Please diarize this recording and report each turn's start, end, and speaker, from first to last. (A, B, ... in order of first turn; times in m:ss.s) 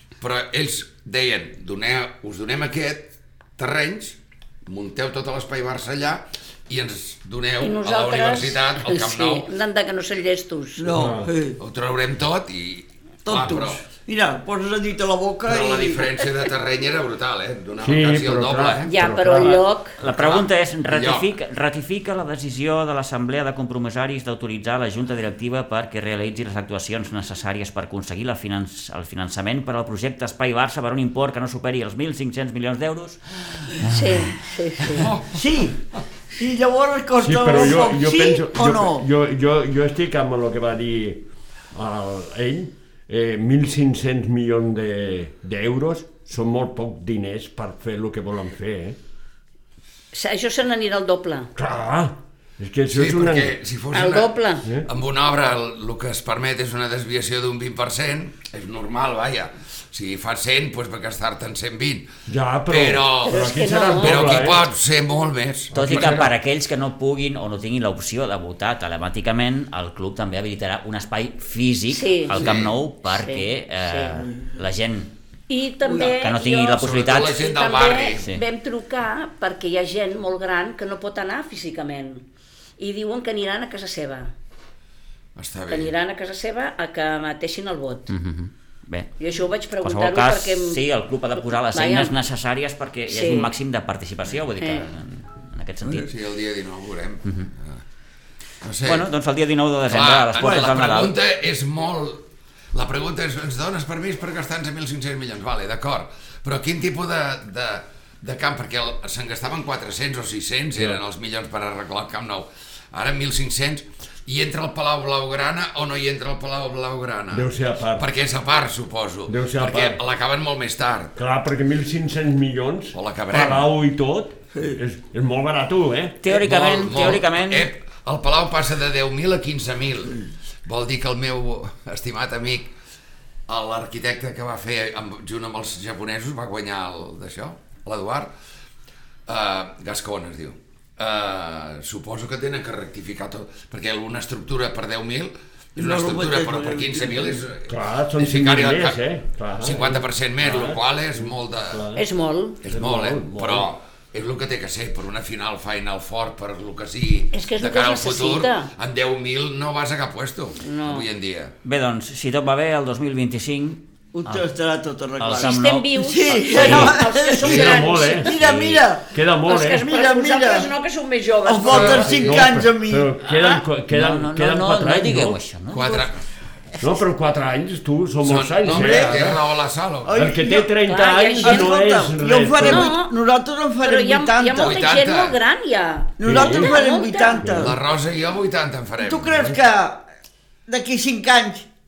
0:00.2-0:09.5 A
0:07.6-0:10.9 B
0:10.8-0:11.6 C
0:10.9-0:11.3 D
0:11.6-0:13.8 A
0:13.2-0:16.1 C
0:15.4-0:18.9 A
0:17.8-0:19.6 D
0:18.8-0:20.0 B
0:19.4-0:35.0 E
0:20.0-0:21.3 A
0:33.8-0:35.1 B
0:34.9-0:35.4 A
0:35.2-0:35.8 C
0:36.3-0:39.0 C
0:37.2-0:49.0 D
0:50.1-0:51.5 B
0:51.6-0:53.6 D
0:52.9-1:02.1 A
0:53.9-0:54.6 B
1:02.3-1:04.6 D
1:02.7-1:06.2 A
1:03.2-1:04.4 B
1:05.7-1:06.3 D
1:05.7-1:15.1 E
1:11.9-1:12.4 B
1:12.3-1:12.7 A
1:13.0-1:14.2 B
1:14.3-1:14.5 C
1:15.5-1:22.2 B
1:15.8-1:16.1 C
1:15.9-1:17.4 E
1:16.8-1:18.2 A
1:22.8-1:24.3 B
1:25.4-1:25.9 A
1:25.7-1:28.1 B
1:28.1-1:29.1 E
1:29.2-1:30.8 B
1:29.8-1:36.1 E
1:31.4-1:32.1 B
1:33.1-1:33.5 B
1:34.6-1:34.9 B
1:36.0-1:37.8 A
1:38.6-1:39.1 A
1:38.8-1:41.1 E
1:39.9-2:01.1 A
1:50.7-1:51.0 D
1:57.3-1:58.1 D
1:59.3-2:00.0 D
2:01.2-2:06.3 D
2:02.9-2:03.7 A
2:06.2-2:07.7 E
2:06.3-2:12.7 A
2:13.5-2:18.3 A
2:19.3-2:29.0 A
2:25.8-2:27.4 C
2:27.7-2:32.0 D
2:29.6-2:31.8 A
2:32.0-2:32.6 B
2:32.6-2:41.5 A
2:32.6-2:33.7 D
2:37.3-2:38.7 B
2:40.6-2:41.1 B
2:41.6-2:44.4 E
2:44.1-2:49.1 C
2:45.2-2:47.0 E
2:45.3-2:48.3 B
2:47.4-2:48.4 D
2:48.3-2:48.8 E
2:49.0-2:49.9 D
2:49.4-2:52.4 B
2:49.7-2:50.7 C
2:51.4-2:53.1 C
2:51.7-2:55.4 D
2:51.7-2:52.2 A
2:53.9-2:56.1 E
2:55.7-2:56.2 A
2:56.8-2:59.4 D
2:58.2-3:00.2 A
2:58.6-2:59.4 C
3:00.0-3:00.7 C
3:00.1-3:02.9 D
3:00.8-3:01.7 B
3:01.4-3:04.8 C
3:02.6-3:03.1 B
3:03.8-3:07.4 B
3:04.6-3:05.4 A
3:06.2-3:07.8 C
3:06.2-3:06.8 D
3:07.4-3:07.8 D
3:07.6-3:09.5 A
3:09.0-3:10.0 C
3:10.7-3:11.6 C